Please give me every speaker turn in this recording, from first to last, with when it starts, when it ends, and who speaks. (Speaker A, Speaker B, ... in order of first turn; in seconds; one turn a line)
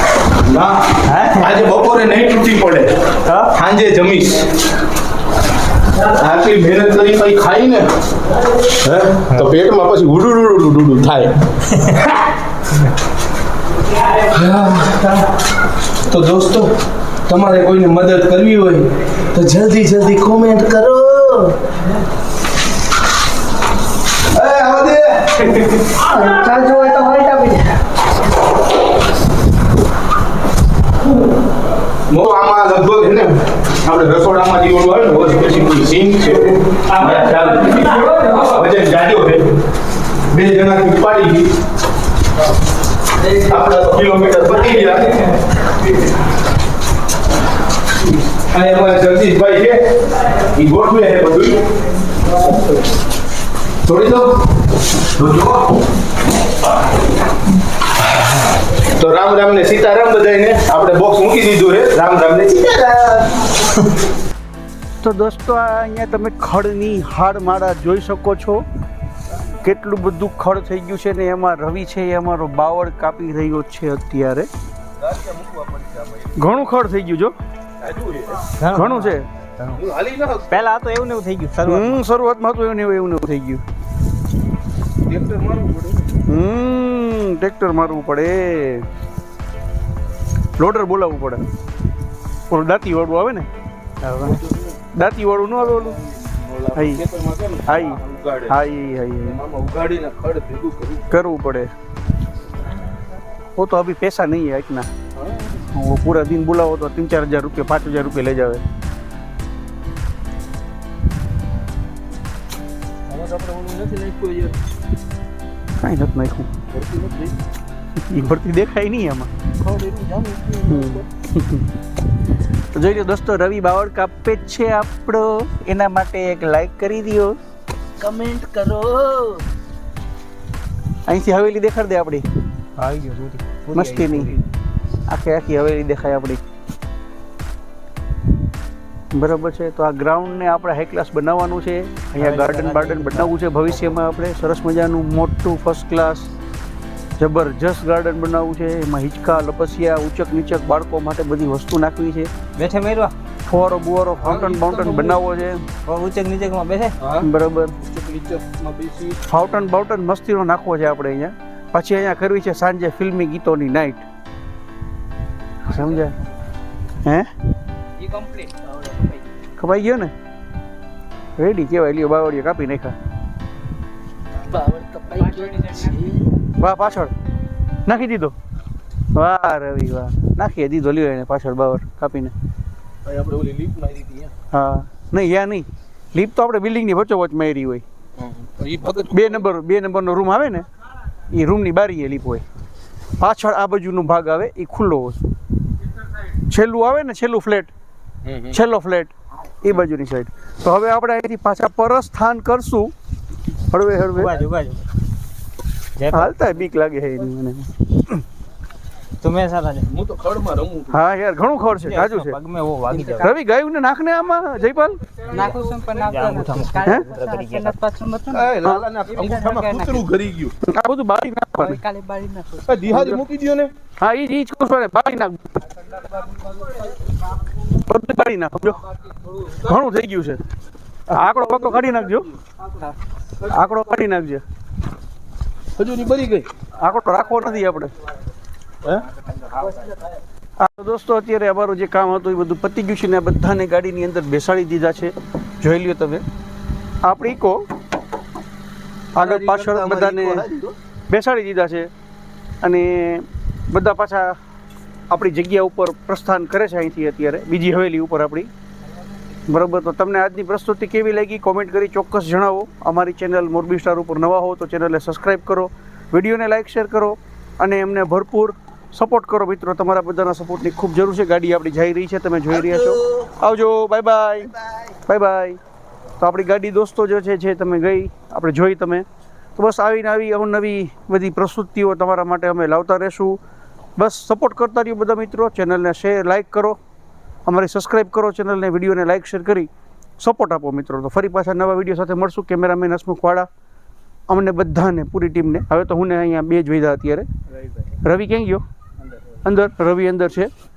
Speaker A: 0.4-3.0
Speaker B: 1.1-1.5
Speaker B: 3.3-3.5
Speaker A: 3.5-4.4
Speaker A: 5.9-7.9
Speaker A: 8.6-11.5
Speaker A: 14.1-15.2
Speaker A: 16.1-16.7
Speaker A: 17.3-21.6
Speaker A: 24.3-25.8
Speaker C: 26.1-27.7
Speaker A: 32.1-39.5
Speaker A: 40.3-41.5
Speaker A: 43.2-45.4
Speaker A: 48.5-49.9
Speaker A: 50.4-51.6
Speaker A: 53.8-54.4
Speaker A: 55.1-55.7
Speaker A: 59.0-63.3
Speaker C: 65.0-68.7
Speaker C: 69.6-74.5
Speaker A: 75.0-76.5
Speaker C: 76.3-77.3
Speaker A: 77.8-78.5
Speaker B: 78.6-79.8
Speaker C: 78.7-79.2
Speaker A: 79.7-80.6
Speaker B: 80.5-82.0
Speaker C: 81.7-83.6
Speaker A: 85.0-86.1
Speaker C: 86.3-88.8
Speaker C: 90.6-91.4
Speaker C: 92.5-93.5
Speaker A: 94.2-94.9
Speaker C: 94.9-96.0
Speaker A: 95.7-98.6
Speaker C: 96.7-97.0
Speaker C: 97.7-99.4
Speaker A: 99.2-101.2
Speaker C: 101.1-101.7
Speaker C: 103.5-104.9
Speaker A: 105.1-105.6
Speaker C: 105.6-108.6
Speaker A: 113.1-114.6
Speaker C: 115.8-116.5
Speaker A: 116.7-117.4
Speaker C: 118.0-119.3
Speaker A: 119.6-121.0
Speaker C: 120.7-121.6
Speaker C: 122.7-127.4
Speaker A: 128.0-129.4
Speaker C: 131.1-132.2
Speaker B: 132.8-134.4
Speaker C: 133.7-134.3
Speaker C: 135.1-136.4
Speaker C: 139.1-146.3
Speaker B: 142.2-143.6
Speaker C: 147.2-152.3
Speaker B: 152.6-153.1
Speaker C: 153.4-155.6
Speaker A: 154.2-155.3
Speaker B: 155.8-156.9
Speaker A: 157.0-157.3
Speaker C: 157.2-157.7
Speaker A: 157.8-159.2
Speaker C: 159.2-164.0
Speaker C: 165.7-166.1
Speaker C: 169.6-170.1
Speaker C: 171.4-172.9
Speaker A: 174.4-176.2
Speaker C: 176.6-177.1
Speaker C: 177.8-178.3
Speaker C: 179.1-182.3
Speaker A: 183.0-184.3
Speaker C: 184.5-187.8
Speaker A: 188.2-189.4
Speaker C: 189.1-190.7
Speaker C: 191.3-192.4
Speaker C: 193.2-195.2
Speaker C: 196.5-197.7
Speaker A: 198.2-198.6
Speaker C: 198.5-202.9
Speaker C: 203.7-204.3
Speaker B: 204.2-204.8
Speaker B: 206.0-206.3
Speaker C: 206.1-208.2
Speaker B: 209.2-209.9
Speaker A: 209.9-211.0
Speaker C: 210.9-212.4
Speaker B: 211.8-213.3
Speaker C: 213.2-215.0
Speaker B: 215.3-217.8
Speaker D: 215.3-218.4
Speaker C: 216.8-217.1
Speaker A: 218.2-220.5
Speaker D: 219.3-219.9
Speaker C: 220.6-221.8
Speaker D: 221.8-222.7
Speaker A: 222.6-223.7
Speaker C: 224.0-225.6
Speaker C: 227.7-228.8
Speaker C: 229.5-230.4
Speaker C: 231.1-232.3
Speaker C: 233.4-234.4
Speaker A: 235.8-236.5
Speaker C: 236.8-237.9
Speaker A: 238.8-239.8
Speaker C: 240.6-246.2
Speaker C: 247.0-247.6
Speaker C: 249.1-250.5
Speaker A: 249.1-250.7
Speaker C: 251.1-251.9
Speaker C: 252.6-254.3
Speaker C: 255.1-258.5
Speaker C: 259.5-275.6
Speaker C: 276.2-279.0
Speaker C: 279.6-283.4
Speaker C: 284.0-286.8
Speaker C: 287.4-293.5
Speaker C: 294.3-297.3
Speaker C: 298.0-298.6
Speaker C: 299.4-300.5